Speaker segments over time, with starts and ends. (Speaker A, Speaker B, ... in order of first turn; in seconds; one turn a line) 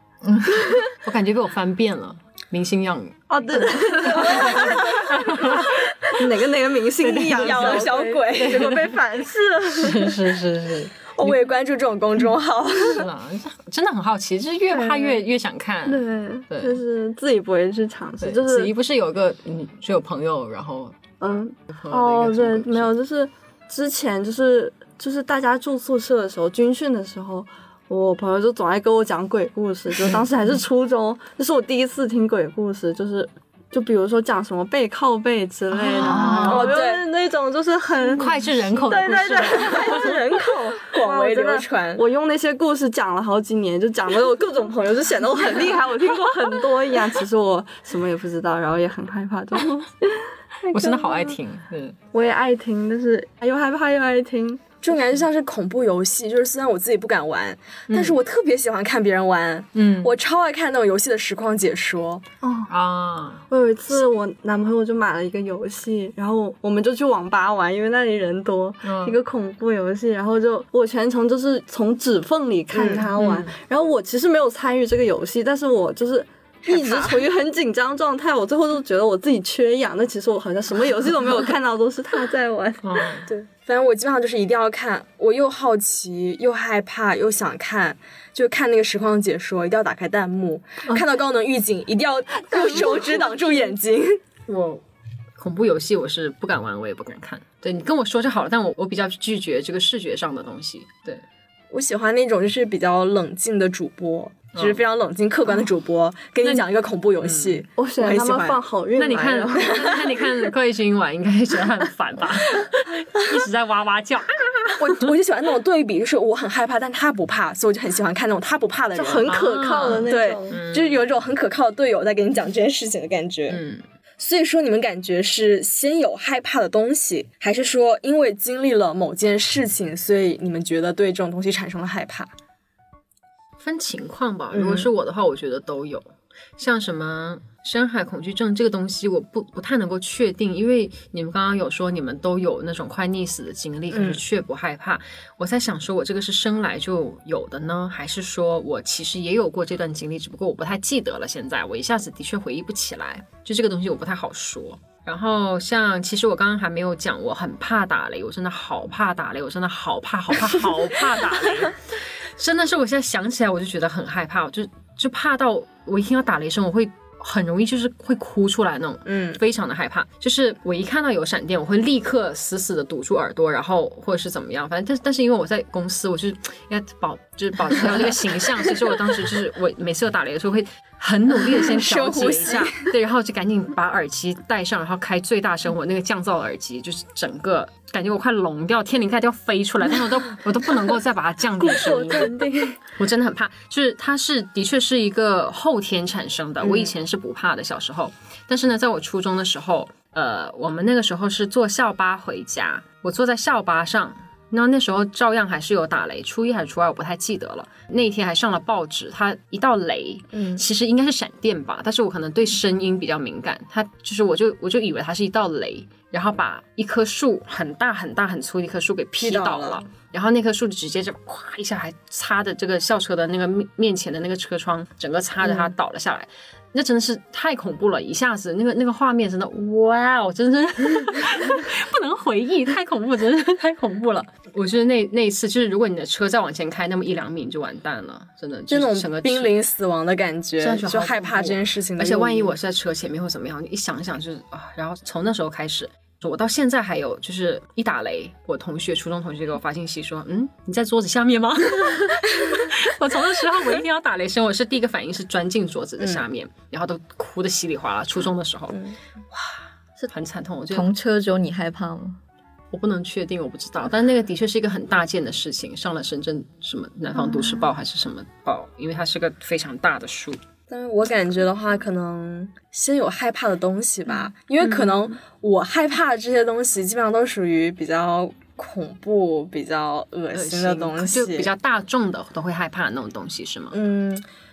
Speaker A: 0.2-0.6
Speaker B: 0.8-5.8
Speaker C: 3.3-10.3
Speaker D: 4.2-4.8
Speaker B: 7.0-8.9
Speaker D: 7.3-8.8
Speaker B: 9.7-11.4
Speaker D: 11.1-13.1
Speaker B: 12.8-16.8
Speaker C: 14.7-15.2
Speaker C: 15.8-18.7
Speaker B: 18.2-21.0
Speaker C: 21.2-51.4
Speaker B: 21.7-22.9
Speaker A: 35.9-36.7
Speaker B: 35.9-36.7
Speaker D: 36.4-37.0
Speaker B: 38.1-40.2
Speaker D: 40.9-42.0
Speaker B: 50.7-52.0
Speaker C: 52.1-54.8
Speaker D: 54.8-62.2
Speaker B: 57.9-58.2
Speaker B: 59.7-60.1
Speaker C: 62.4-62.7
Speaker B: 62.7-63.4
Speaker C: 63.5-83.1
Speaker B: 68.8-69.2
Speaker D: 72.7-73.1
Speaker B: 73.2-73.5
Speaker D: 76.7-77.2
Speaker B: 82.8-83.3
Speaker D: 83.3-94.2
Speaker C: 92.5-93.6
Speaker B: 94.5-94.8
Speaker B: 95.4-101.2
Speaker D: 101.7-108.6
Speaker B: 104.5-104.8
Speaker B: 107.2-107.6
Speaker C: 107.8-110.3
Speaker B: 109.0-115.1
Speaker D: 114.8-119.3
Speaker C: 118.9-120.6
Speaker B: 119.2-121.0
Speaker D: 119.9-123.6
Speaker B: 123.5-123.8
Speaker D: 124.2-132.3
Speaker B: 133.6-192.3
Speaker D: 134.5-134.9
Speaker D: 143.9-144.2
Speaker D: 169.1-169.4
Speaker D: 181.5-182.8
Speaker C: 191.6-192.8
Speaker B: 193.0-239.5
Speaker D: 196.6-196.9
Speaker D: 210.3-210.6
Speaker D: 219.2-219.8
Speaker D: 225.4-225.7
Speaker D: 238.7-242.5
Speaker B: 240.6-258.8
Speaker B: 260.1-260.9
Speaker A: 260.7-262.2
Speaker B: 262.7-270.4
Speaker D: 270.7-281.5
Speaker B: 274.6-274.9
Speaker B: 280.3-283.7
Speaker D: 283.7-284.2